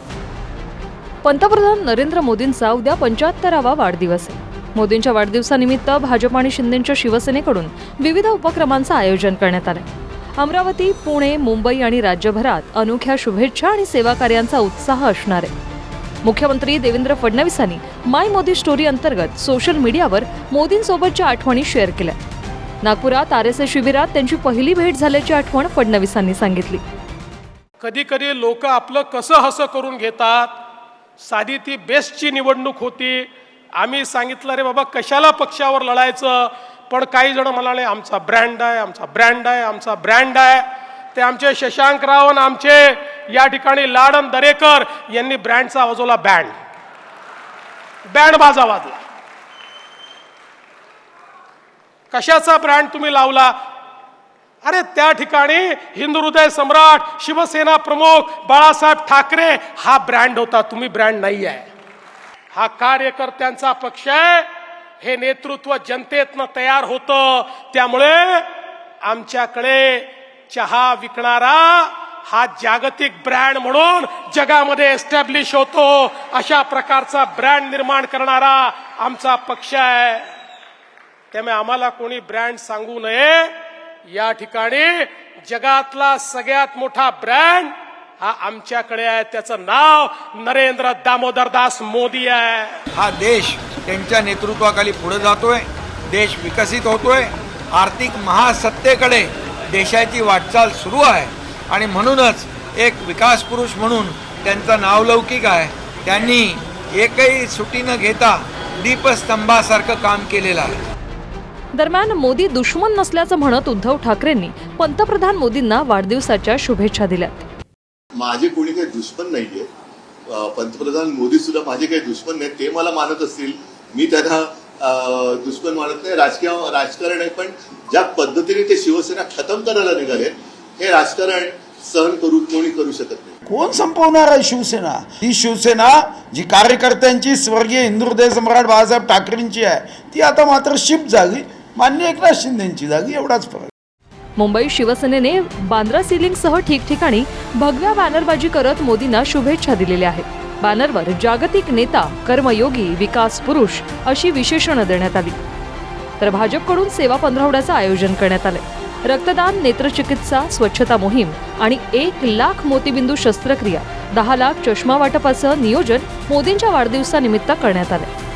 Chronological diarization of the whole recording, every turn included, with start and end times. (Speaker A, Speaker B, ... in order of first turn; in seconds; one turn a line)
Speaker A: 1.2-15.5
Speaker A: 16.2-22.2
Speaker A: 22.8-26.8
Speaker B: 27.8-30.5
Speaker B: 31.2-33.3
Speaker B: 33.8-46.5
Speaker B: 48.1-49.0
Speaker B: 52.1-53.5
Speaker B: 54.6-61.7
Speaker B: 62.5-64.5
Speaker B: 65.0-68.5
Speaker B: 69.0-80.3
Speaker B: 81.3-83.5
Speaker B: 84.1-92.7
Speaker C: 92.9-110.8
Speaker A: 111.7-117.5
Speaker D: 118.2-119.7
Speaker D: 120.3-133.4
Speaker E: 133.5-143.7
Speaker A: 144.4-155.4
Speaker A: 156.2-168.1